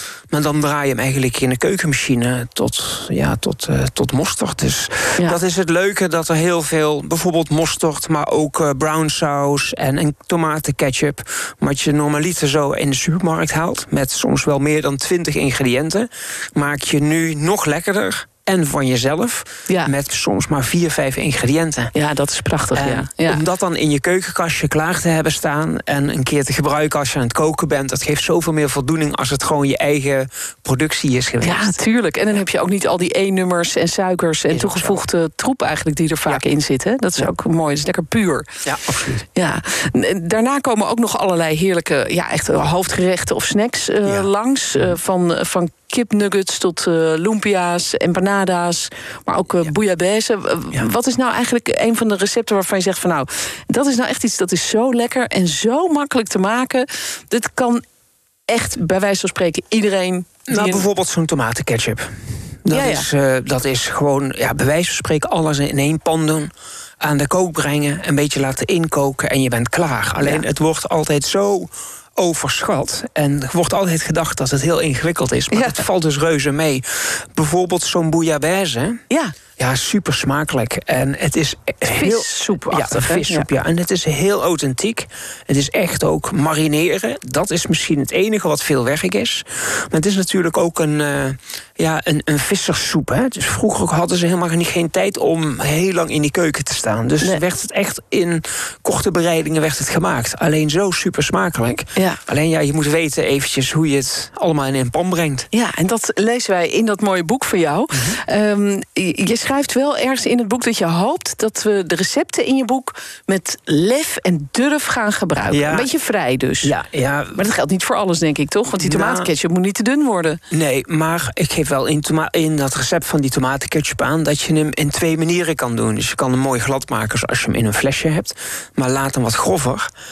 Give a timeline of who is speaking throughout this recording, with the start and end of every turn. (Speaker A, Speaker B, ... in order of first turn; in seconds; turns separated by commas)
Speaker A: 0.3-21.9, Speaker B: 19.7-19.9, Speaker B: 21.9-23.4, Speaker A: 22.7-31.7, Speaker B: 31.4-38.5, Speaker A: 34.5-35.0, Speaker A: 38.6-39.2, Speaker B: 39.4-57.8, Speaker A: 44.0-44.9, Speaker B: 58.5-60.9, Speaker A: 60.5-62.1, Speaker A: 62.6-79.0, Speaker B: 62.7-63.1, Speaker B: 70.2-70.5, Speaker B: 75.5-75.8, Speaker B: 79.1-79.3, Speaker A: 79.6-105.5, Speaker B: 81.8-83.5, Speaker B: 105.5-116.7, Speaker A: 107.9-108.2, Speaker A: 115.5-115.9, Speaker A: 116.6-117.4, Speaker B: 117.3-120.4, Speaker A: 118.8-119.3, Speaker A: 120.5-129.9